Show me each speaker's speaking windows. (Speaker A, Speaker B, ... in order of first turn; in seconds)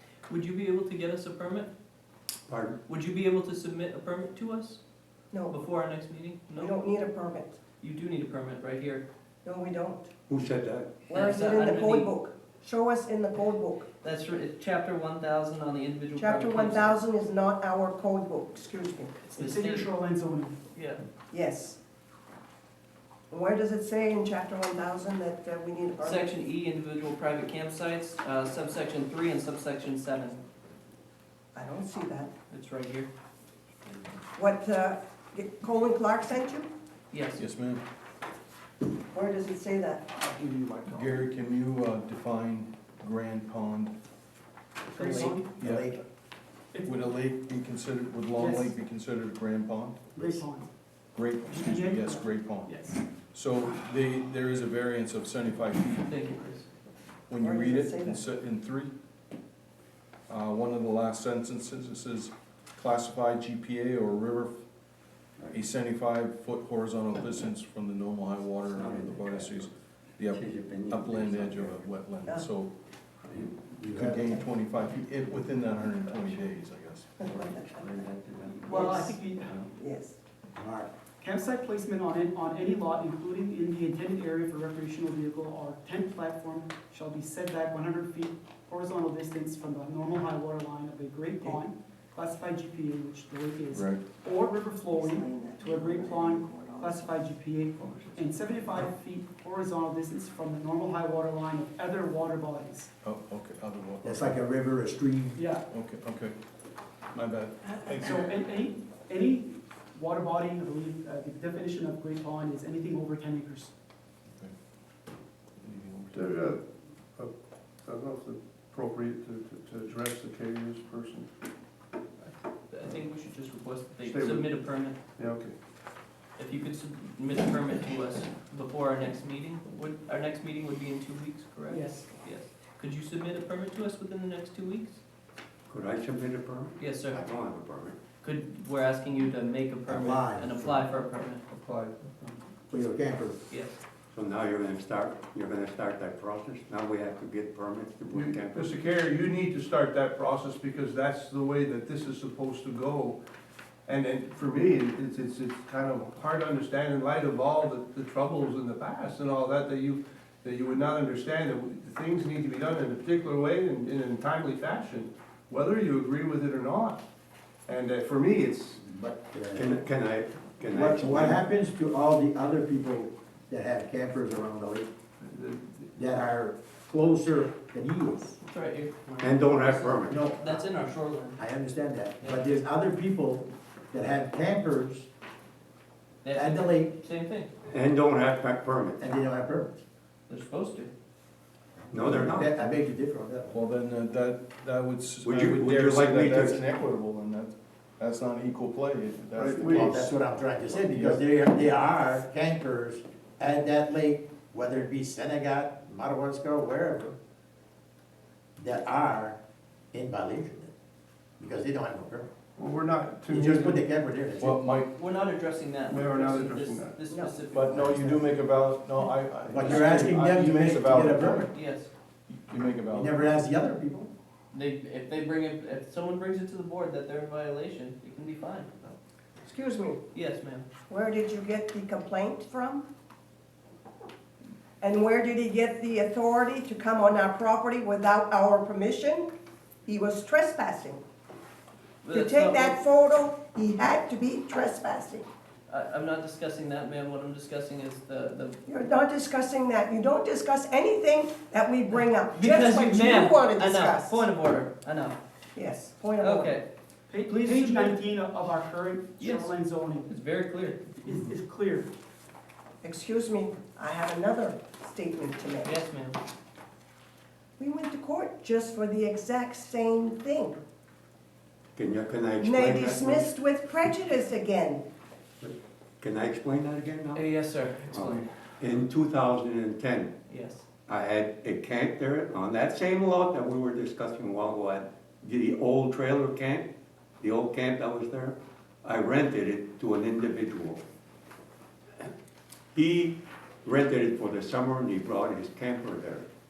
Speaker A: 0.3-1.7, 2.9-4.8, 5.5-6.8, 7.8-9.1, 11.1-12.1, 14.0-17.0, 19.2-19.9, 20.7-21.0, 26.0-30.4, 32.5-33.1, 37.1-37.4, 56.0-56.7, 122.2-125.0, 126.4-135.0, 136.8-137.2, 138.2-141.4, 143.5-143.8, 178.4-181.4, 186.2-187.5, 190.3-190.9, 215.0-217.9, 221.5-221.9, 224.5-228.7, 230.1-230.7, 242.0-242.8, 245.7-248.6, 252.1-255.2, 256.2-256.7, 257.3-258.0, 259.2-259.6, 260.1-260.9, 265.6-266.2, 277.1-278.3, 280.3-280.6
Speaker B: 2.5-2.8, 10.3-10.9, 68.6-69.6, 70.2-71.8, 73.2-73.5, 77.2-79.7, 135.7-138.0, 144.1-148.7, 169.5-171.4, 179.2-180.2, 187.7-189.0, 191.9-192.5, 195.2-196.6, 271.8-273.3, 275.4-277.3, 277.9-280.1, 280.9-286.7, 287.2-290.8, 292.7-296.3
Speaker C: 6.6-7.6, 9.4-10.1, 11.1-13.9, 16.2-19.2, 21.3-21.8, 23.3-26.3, 31.5-32.3, 34.4-36.7, 39.1-40.3, 57.4-58.2, 78.7-79.2, 79.7-80.2, 94.9-97.2, 217.1-217.4, 229.4-230.0, 230.9-232.9, 234.8-239.3, 239.9-241.0, 242.1-245.3, 248.7-254.2, 255.6-256.5, 262.8-265.7, 267.6-270.6, 272.4-274.8
Speaker D: 19.4-20.6, 44.9-45.5, 46.7-47.1, 48.4-48.8, 50.2-50.7, 51.4-53.0, 78.7-79.5, 81.2-102.9, 105.3-105.6, 108.0-113.7, 131.7-132.2, 257.1-260.2, 260.9-261.9
Speaker E: 37.4-37.8, 40.9-43.9, 45.3-46.0, 46.8-50.2, 51.1-56.1, 57.3-58.9, 60.3-64.6, 65.5-72.7, 73.9-77.3, 93.7-94.1, 103.0-104.4, 105.7-106.4, 107.1-108.3, 115.6-116.3, 193.5-200.1, 200.7-201.2, 214.4-214.9, 217.5-221.5, 222.3-223.3
Speaker F: 40.2-41.2, 44.9-46.0, 50.2-50.4, 73.8-74.4, 80.6-80.9, 104.0-105.5, 139.9-140.8, 142.7-143.4, 168.8-169.8, 170.7-174.9, 175.9-178.4, 180.1-180.6, 181.4-185.1, 186.3-186.9, 189.0-189.8, 191.9-193.6, 199.6-207.2, 208.6-209.4, 209.9-210.7, 211.4-212.3, 213.3-214.6, 217.6-218.3, 219.5-221.5, 222.9-224.1
Speaker G: 116.1-116.6, 117.2-121.3, 124.0-125.5, 141.5-142.4, 148.1-153.2, 153.9-167.0, 167.7-168.8, 175.2-175.9, 199.4-200.0, 212.6-213.8, 215.9-217.0